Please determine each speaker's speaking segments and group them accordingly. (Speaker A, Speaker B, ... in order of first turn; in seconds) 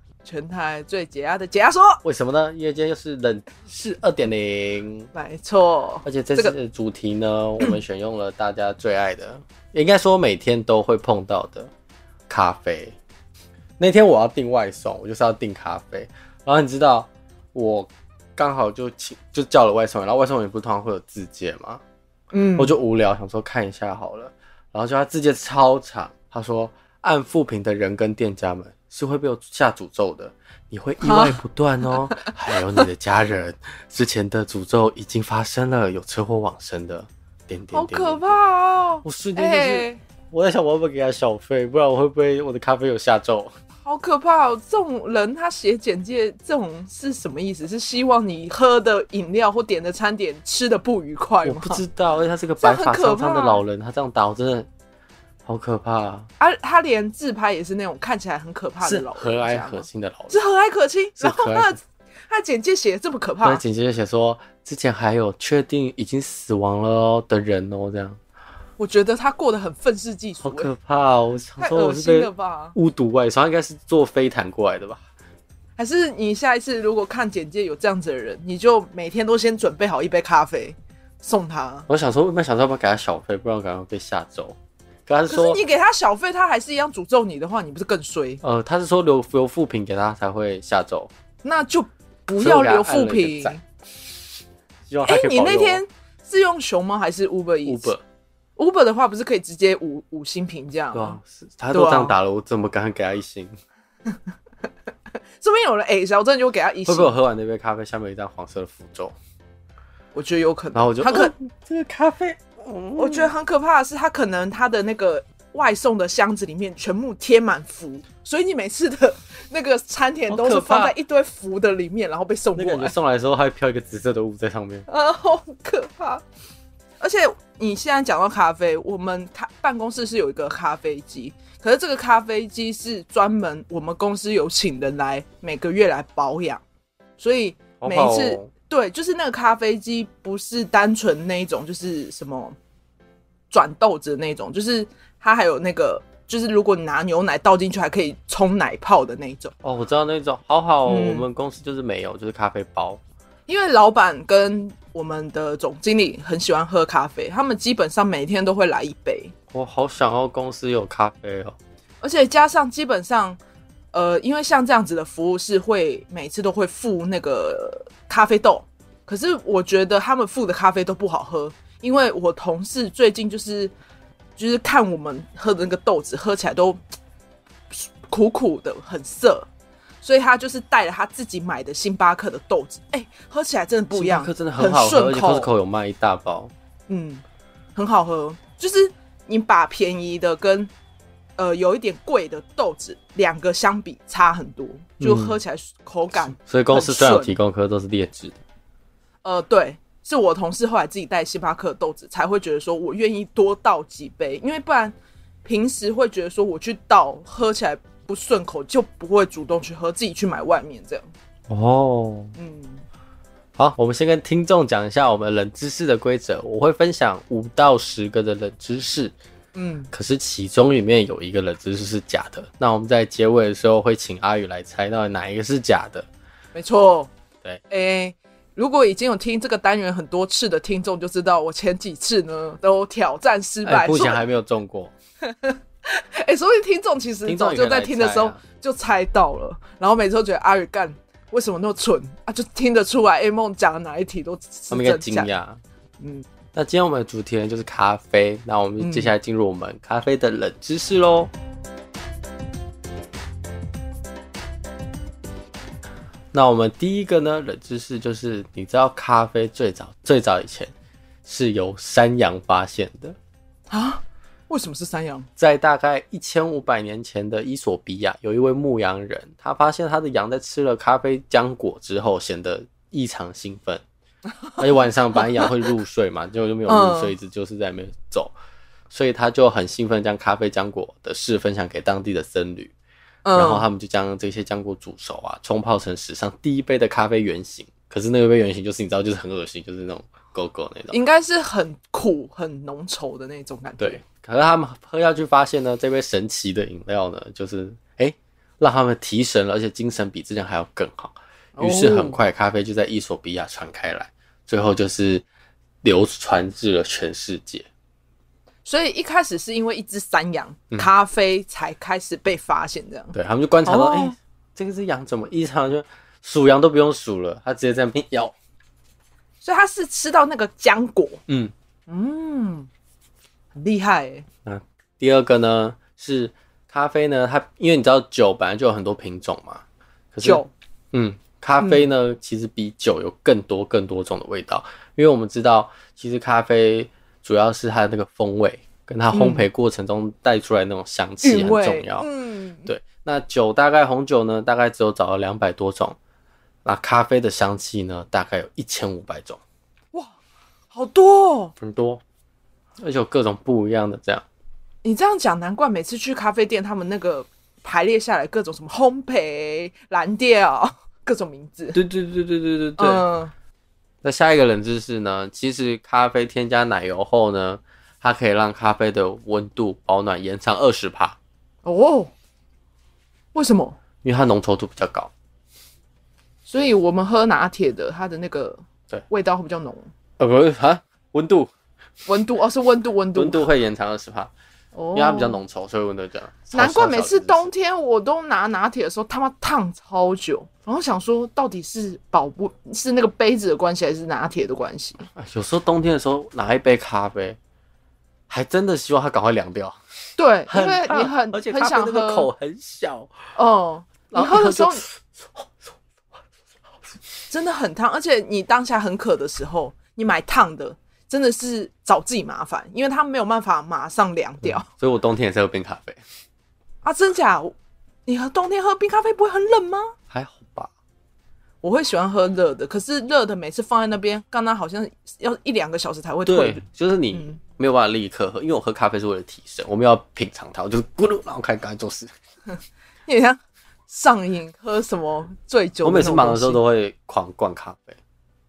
Speaker A: 0.2-2.0, 5.1-6.5, 22.3-22.8, 31.0-31.4, 37.7-40.0, 43.9-51.8, 52.6-53.6, 56.4-63.6, 68.8-70.7, 71.6-72.8, 75.8-81.9, 85.3-88.4, 91.4-93.6, 95.1-97.9, 98.6-101.2, 101.7-102.1, 105.4-107.1, 110.1-111.3, 113.0-123.0, 124.9-126.2, 127.0-136.6, 137.2-142.6, 143.5-149.5, 150.9-151.3, 153.5-159.3, 162.0-163.4, 163.9-173.7, 174.4-176.8, 177.7-179.5, 180.0-185.5, 186.9-187.2, 187.8-190.7, 191.4-197.4, 199.2-211.1, 212.4-212.8, 219.5-219.9, 226.6-227.1, 227.7-234.2, 235.2-245.3, 246.0-246.3, 248.8-249.1, 263.7-265.3, 276.7-277.1, 283.2-283.7, 290.9-294.0, 301.6-302.2, 308.6-314.2, 319.4-321.2, 321.9-322.7, 323.6-324.3, 330.2-330.5, 331.6-331.8, 339.1-339.5, 341.2-342.7, 350.7-351.5, 354.8-361.8, 362.8-363.3, 371.6-372.1, 373.3-373.8, 376.5-379.9, 382.1-383.4, 384.7-385.4, 386.5-395.1, 400.2-402.3, 403.4-404.8, 407.3-414.7, 416.8-417.6, 418.1-419.9, 421.6-427.4, 433.1-436.6
Speaker B: 2.0-5.1, 6.0-11.7, 12.3-13.0, 13.8-21.8, 22.6-38.4, 39.0-43.5, 51.5-54.7, 55.5-56.3, 58.8-60.4, 61.2-61.8, 63.4-68.2, 70.4-75.0, 81.9-85.6, 88.4-91.1, 92.4-93.6, 94.9-95.8, 97.7-98.0, 100.9-103.5, 106.9-109.2, 110.8-113.3, 120.3-121.0, 122.5-124.9, 137.8-138.5, 149.6-153.0, 159.5-161.6, 183.9-186.5, 195.0-195.4, 196.4-198.4, 211.5-212.3, 213.6-219.1, 219.9-226.1, 233.7-234.9, 237.2-238.4, 244.7-245.6, 246.5-251.3, 256.3-260.7, 261.2-263.2, 265.4-273.8, 274.6-278.3, 278.9-282.7, 283.3-290.9, 293.8-305.2, 305.8-307.7, 313.1-318.3, 321.3-321.5, 324.4-342.1, 342.7-346.0, 346.6-349.4, 351.6-352.0, 352.8-354.2, 361.7-363.1, 364.0-371.2, 374.0-375.1, 380.2-381.5, 383.1-384.3, 384.9-387.5, 395.1-397.4, 398.3-399.8, 400.5-403.1, 404.1-405.4, 414.4-416.0, 420.1-420.7, 426.3-432.1, 435.8-438.0